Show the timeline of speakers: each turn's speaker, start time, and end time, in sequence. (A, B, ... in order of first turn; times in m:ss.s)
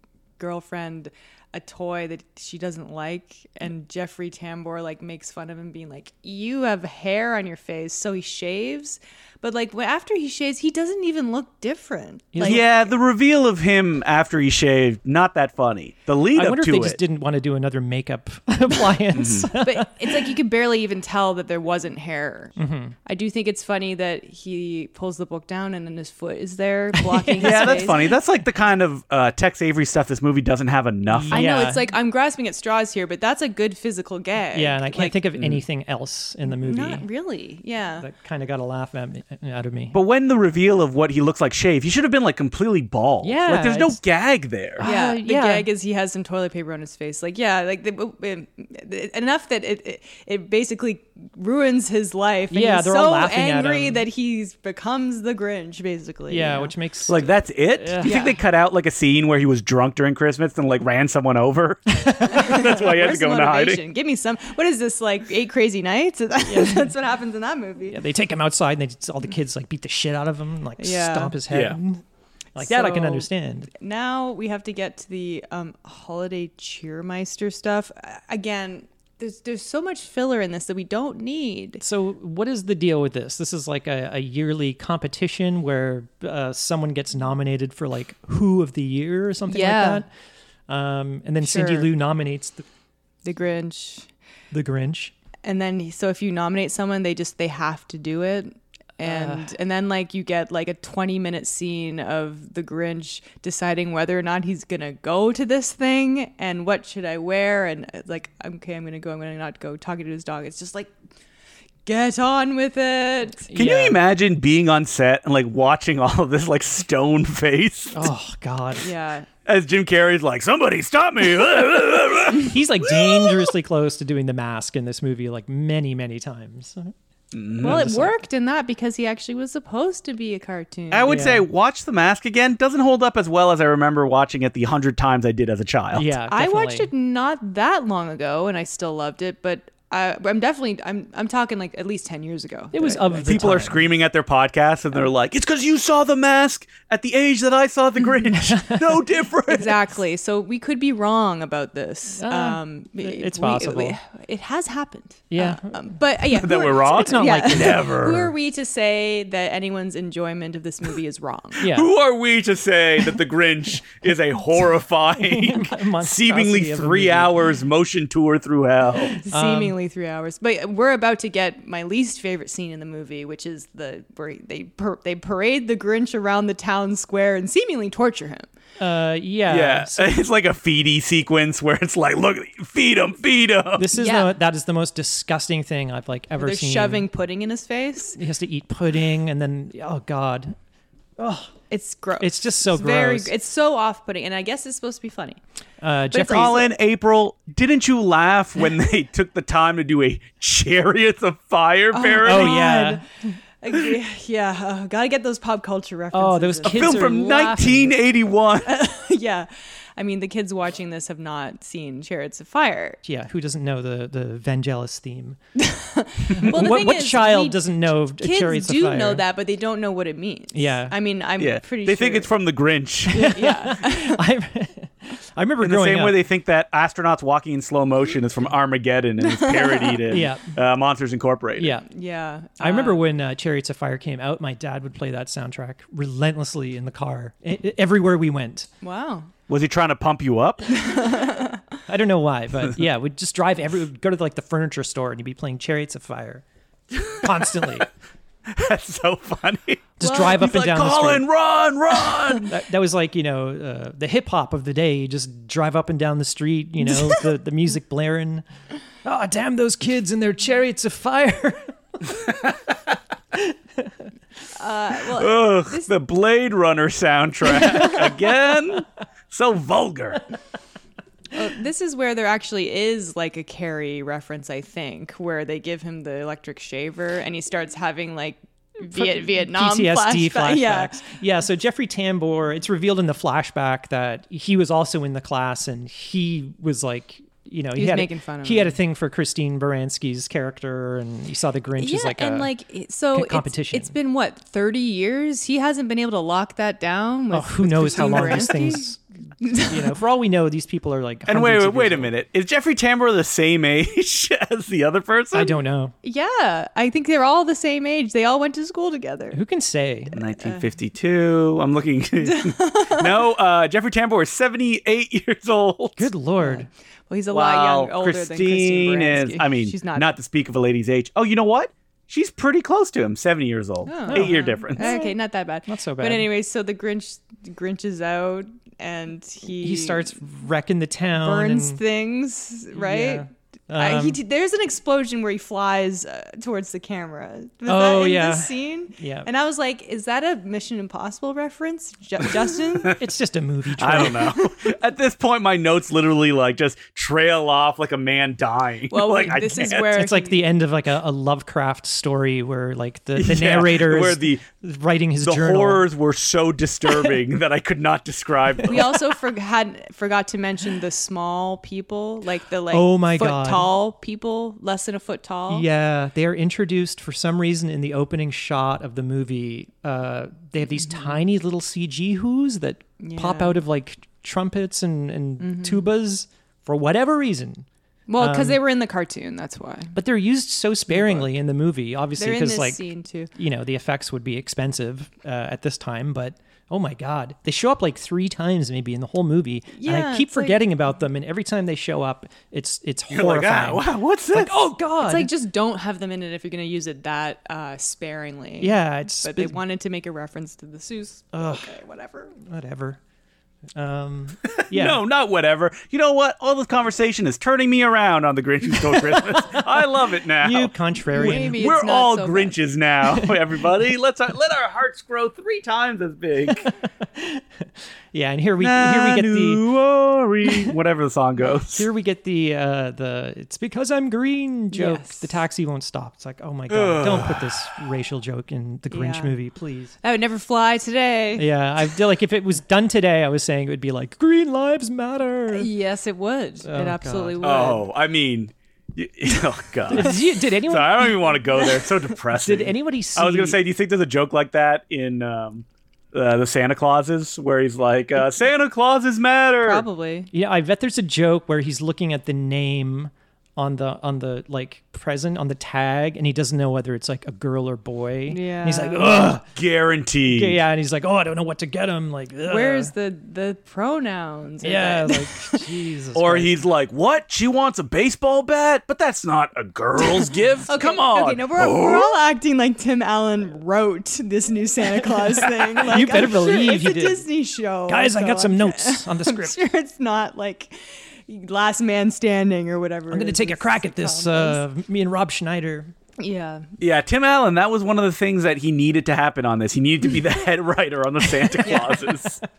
0:00.4-0:12.7 A
0:12.3-0:12.6 B
0:12.4-0:17.0 C
0:16.3-0:20.2 B
0:19.2-0:19.5 C
0:19.6-0:28.2 A
0:22.6-0:23.0 B
0:27.0-0:27.8 B
0:27.4-0:31.5 C
0:31.1-0:31.9 B
0:31.3-0:35.2 A
0:34.5-0:37.0 B
0:36.6-0:38.1 A
0:38.0-0:40.0 B
0:39.9-0:44.8 C
0:43.2-0:44.0 B
0:44.8-0:45.7 B
0:44.8-0:56.7 A
0:52.5-0:54.0 B
0:56.3-0:58.2 B
0:57.1-1:03.8 C
0:58.0-0:58.4 A
1:02.2-1:08.0 A
1:06.4-1:06.9 B
1:07.9-1:12.0 B
1:10.8-1:11.4 A
1:11.5-1:11.8 C
1:12.6-1:13.7 B
1:12.6-1:21.8 A
1:21.8-1:30.1 B
1:29.5-1:30.0 A
1:30.7-1:32.6 B
1:31.4-1:31.9 A
1:33.2-1:34.1 A
1:34.5-1:35.1 B
1:35.4-1:50.9 A
1:39.0-1:39.5 B
1:51.9-1:53.5 A
1:53.5-1:54.0 B
1:53.6-1:58.1 C
1:57.9-1:58.9 B
1:58.8-1:59.3 A
1:59.5-2:03.5 C
2:02.4-2:06.9 B
2:07.3-2:07.9 C
2:07.6-2:08.2 B
2:07.6-2:11.1 A
2:10.9-2:16.1 C
2:11.1-2:11.5 B
2:15.9-2:16.9 B
2:16.3-2:23.5 A
2:22.7-2:23.8 B
2:23.3-2:29.8 C
2:28.5-2:28.8 B
2:29.5-2:41.7 A
2:32.2-2:34.0 B
2:35.3-2:35.7 B
2:36.3-2:38.3 C
2:36.9-2:38.2 B
2:41.6-2:41.9 B
2:41.7-2:49.1 C
2:45.2-2:47.4 B
2:49.2-2:58.5 A
2:49.3-2:49.8 B
2:58.8-3:00.2 B
2:59.5-3:03.9 C
3:03.8-3:07.1 B
3:04.0-3:04.3 A
3:06.4-3:08.2 A
3:08.2-3:10.6 B
3:11.2-3:11.5 B
3:11.7-3:15.4 A
3:12.2-3:13.3 B
3:15.8-3:16.6 B
3:16.1-3:16.7 A
3:16.2-3:22.6 C
3:21.9-3:23.0 A
3:22.2-3:23.0 B
3:23.6-3:27.1 A
3:26.1-3:27.9 B
3:26.6-3:28.7 C
3:28.6-3:33.0 A
3:33.0-3:35.4 B
3:35.6-3:42.3 A
3:36.3-3:39.2 B
3:40.5-3:41.0 B
3:41.4-3:43.4 C
3:43.1-3:44.2 A
3:43.2-3:46.2 B
3:45.6-3:51.8 C
3:49.3-3:50.0 A
3:50.1-3:50.5 B
3:51.6-3:51.9 B
3:51.8-3:53.0 A
3:52.6-3:58.7 B
3:58.8-3:59.3 A
3:59.5-4:00.8 C
4:00.7-4:01.6 A
4:01.9-4:06.4 B
4:06.9-4:07.9 C
4:07.0-4:07.9 B
4:08.5-4:12.5 C
4:10.0-4:11.3 B
4:10.0-4:10.4 A
4:12.5-4:18.4 B
4:19.0-4:22.5 B
4:23.4-4:23.9 B
4:24.6-4:25.9 A
4:25.1-4:30.2 C
4:31.3-4:41.1 A
4:38.9-4:52.5 B
4:47.8-4:48.8 A
4:51.8-4:58.9 A
4:53.1-4:54.0 B
4:57.3-4:59.0 B
4:59.4-4:59.9 A
4:59.5-5:02.1 B
5:01.3-5:05.6 C
5:05.3-5:05.9 B
5:06.0-5:09.4 A
5:09.3-5:10.2 B
5:10.1-5:16.1 C
5:10.4-5:10.7 A
5:12.2-5:13.1 A
5:16.0-5:16.7 B
5:16.4-5:20.1 A
5:17.3-5:24.9 C
5:23.9-5:30.2 A
5:24.1-5:25.1 B
5:25.7-5:26.3 B
5:29.5-5:31.8 B
5:31.2-5:33.2 A
5:32.7-5:34.2 B
5:33.8-5:43.0 A
5:37.7-5:39.3 B
5:42.9-5:44.5 B
5:43.8-5:49.9 C
5:48.9-5:50.4 A
5:49.3-5:55.8 B
5:53.2-5:54.4 C
5:55.2-5:59.0 C
5:58.6-6:05.7 A
6:02.7-6:03.7 B
6:05.5-6:17.7 B
6:10.9-6:11.2 A
6:13.0-6:13.6 A
6:15.4-6:15.9 A
6:18.1-6:20.0 A
6:18.2-6:18.6 B
6:19.9-6:35.3 B
6:20.9-6:21.2 A
6:22.2-6:23.3 A
6:29.8-6:30.6 A
6:33.1-6:34.6 C
6:35.0-6:42.3 A
6:38.6-6:39.6 B
6:41.3-6:41.7 B
6:42.4-6:43.0 B
6:43.8-6:45.0 B
6:44.6-6:56.7 C
6:50.4-6:51.6 B
6:51.1-6:52.6 A
6:56.5-6:57.4 B
6:58.1-6:59.6 B
6:58.6-7:01.9 C
7:00.5-7:00.7 B
7:01.7-7:09.9 B
7:04.7-7:05.4 A
7:06.7-7:07.6 C
7:08.9-7:09.3 A
7:10.0-7:11.9 A
7:11.4-7:15.7 B
7:15.5-7:17.8 A
7:16.6-7:17.7 B
7:17.4-7:29.9 C
7:19.9-7:21.2 B
7:22.3-7:23.6 B
7:29.6-7:30.3 A
7:30.3-7:39.4 B
7:38.3-7:39.3 A
7:39.2-7:40.6 C
7:40.2-7:42.9 B
7:42.5-7:45.8 A
7:44.6-7:46.6 B
7:46.2-7:52.2 C
7:50.0-8:04.6 A
7:55.8-7:57.2 B
7:57.9-7:59.6 B
8:03.1-8:05.9 B
8:06.2-8:06.7 A
8:06.8-8:12.4 C
8:11.6-8:12.0 A